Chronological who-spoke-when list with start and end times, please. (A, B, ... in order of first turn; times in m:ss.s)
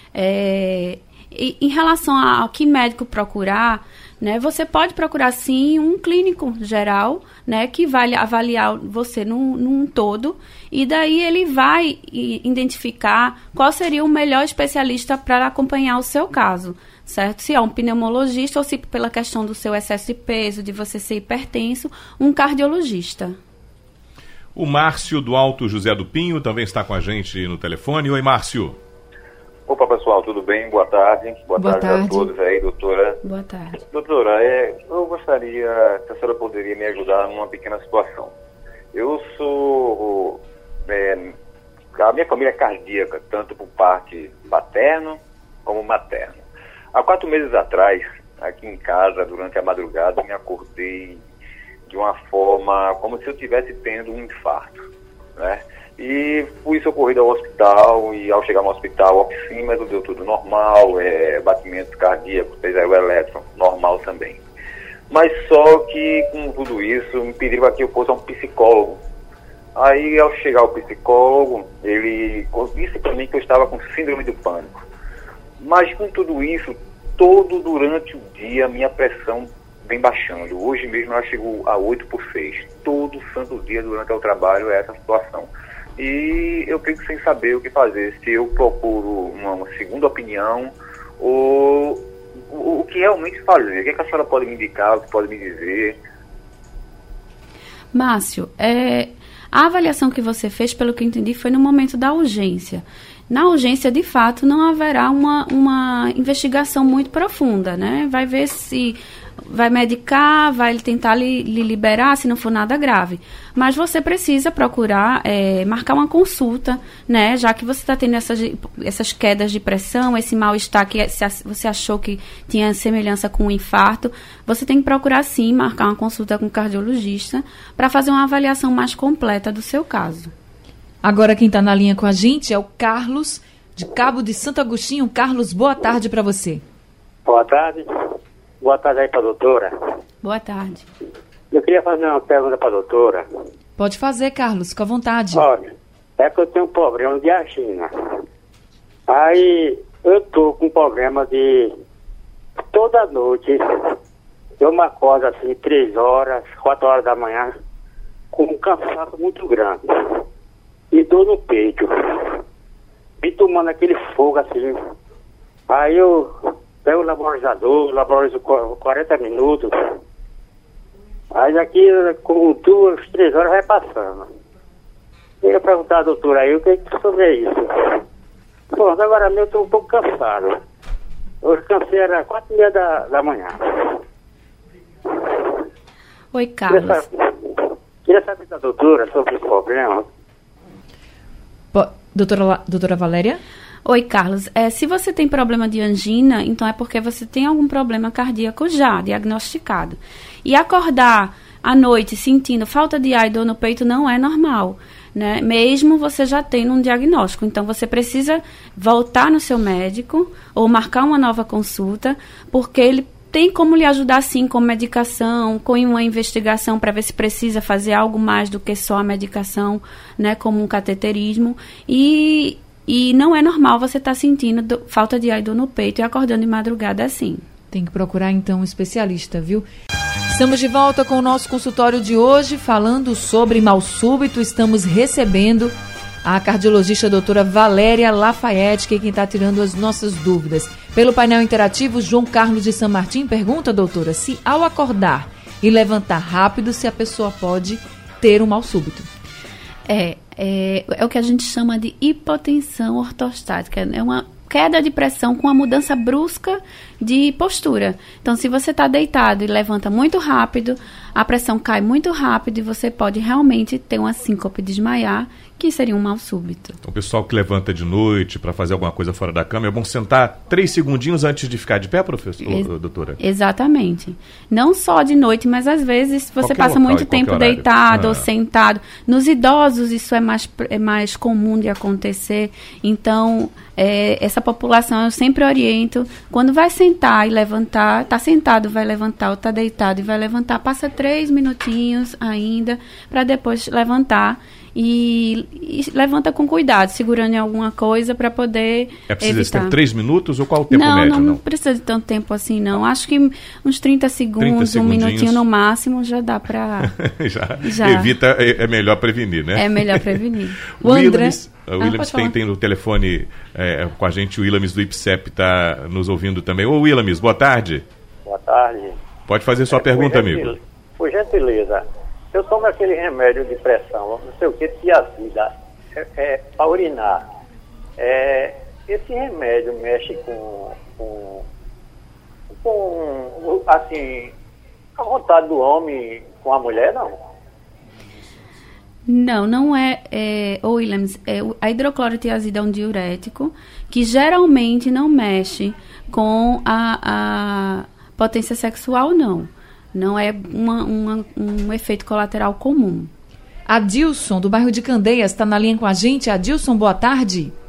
0:00.1-0:23.4 A
0:24.5-0:28.8 B
0:29.7-0:33.2 C
0:31.6-0:32.3 D
0:33.2-0:33.8 A
0:33.8-0:38.3 C
0:38.9-0:41.3 C
0:41.9-0:46.4 C
0:46.9-0:51.2 C
0:51.9-0:54.8 C
0:55.4-1:04.4 C
1:05.1-1:09.0 C
1:09.7-1:14.8 C
1:15.6-1:36.0 C
1:37.9-2:10.3 A
2:11.0-2:16.6 D
2:17.2-2:17.9 E
2:18.6-2:19.7 E
2:20.2-2:20.9 A
2:21.5-2:23.2 E
2:23.8-2:25.5 D
2:25.3-2:27.9 E
2:29.1-2:31.7 E
2:32.7-2:33.7 E
2:34.6-2:37.5 E
2:38.3-2:39.8 E
2:40.9-2:42.4 E
2:43.2-2:44.8 E
2:45.7-2:46.3 E
2:46.8-2:49.7 E
2:51.3-2:54.2 E
2:55.4-2:58.0 E
2:58.7-3:00.5 E
3:01.4-3:04.0 E
3:06.3-3:07.0 A
3:06.7-3:10.0 E
3:11.7-3:13.4 D
3:13.8-3:47.4 A
3:47.7-3:49.6 D
3:50.3-4:09.1 D
4:09.9-4:26.8 A
4:26.8-4:33.2 B
4:32.4-4:59.8 A
4:36.4-4:38.2 B
4:59.1-5:01.4 B
5:00.7-5:06.9 A
5:04.4-5:05.4 B
5:06.8-5:10.2 B
5:07.6-5:08.1 A
5:09.6-5:12.3 A
5:10.8-5:17.8 B
5:18.2-5:19.0 E
5:19.3-5:20.5 B
5:19.7-5:27.2 E
5:28.0-5:31.4 E
5:32.6-5:34.3 E
5:35.0-5:37.1 E
5:39.1-5:53.1 A
5:53.7-5:57.5 D